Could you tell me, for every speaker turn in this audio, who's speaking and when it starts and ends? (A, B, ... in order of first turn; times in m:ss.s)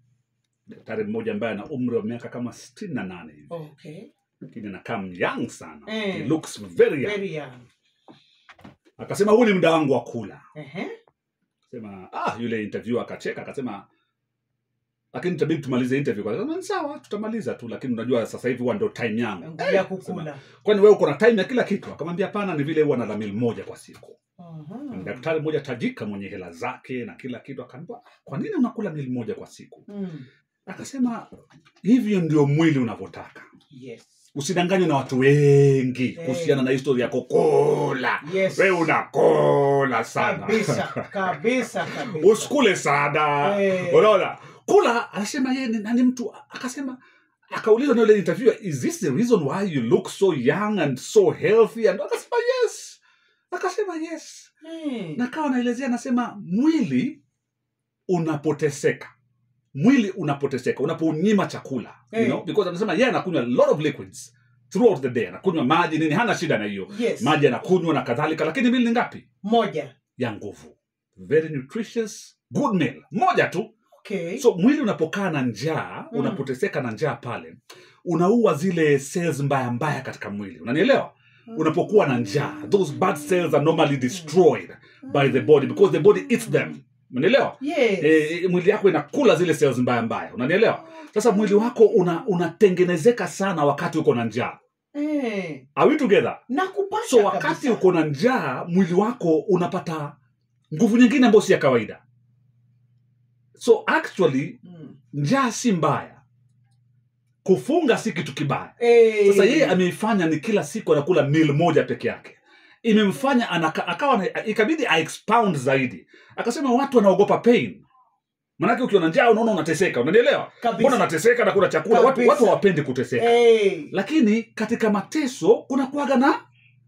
0:00.7-0:03.5 A
0:03.5-0:04.1 B
0:04.5-0:07.2 A
0:05.9-0:06.4 B
0:07.0-0:07.6 B
0:09.0-0:10.4 A
0:10.6-0:10.9 B
0:11.7-0:13.8 A
0:15.1-0:24.2 A
0:19.4-0:20.4 B
0:24.4-0:25.3 B
0:24.9-0:29.9 A
0:29.9-0:30.3 B
0:30.7-0:31.3 A
0:31.8-0:33.5 A
0:33.7-0:34.2 B
0:34.4-0:41.1 A
0:36.2-0:36.6 B
0:38.2-0:38.9 B
0:40.2-0:42.6 B
0:41.8-0:47.0 A
0:43.4-0:44.1 B
0:47.5-0:53.0 A
0:53.5-0:54.5 A
0:54.6-0:55.2 B
0:55.2-0:57.2 A
0:58.1-0:59.1 A
0:59.8-1:09.2 A
1:02.1-1:02.4 B
1:06.9-1:07.4 B
1:09.4-1:10.0 B
1:10.2-1:13.7 A
1:14.0-1:14.4 B
1:14.4-1:34.6 A
1:16.1-1:16.4 B
1:21.5-1:22.5 B
1:25.0-1:26.7 B
1:27.6-1:28.3 B
1:31.0-1:32.0 B
1:34.9-1:35.6 B
1:35.8-1:36.4 A
1:36.5-1:37.8 B
1:37.0-1:40.1 A
1:40.7-1:42.0 A
1:43.6-1:44.6 A
1:44.6-1:45.0 B
1:45.1-1:46.2 A
1:47.4-1:57.8 A
1:48.8-1:49.8 B
1:58.6-2:03.4 A
2:00.6-2:01.1 B
2:01.9-2:02.6 B
2:03.2-2:03.9 B
2:03.9-2:06.4 A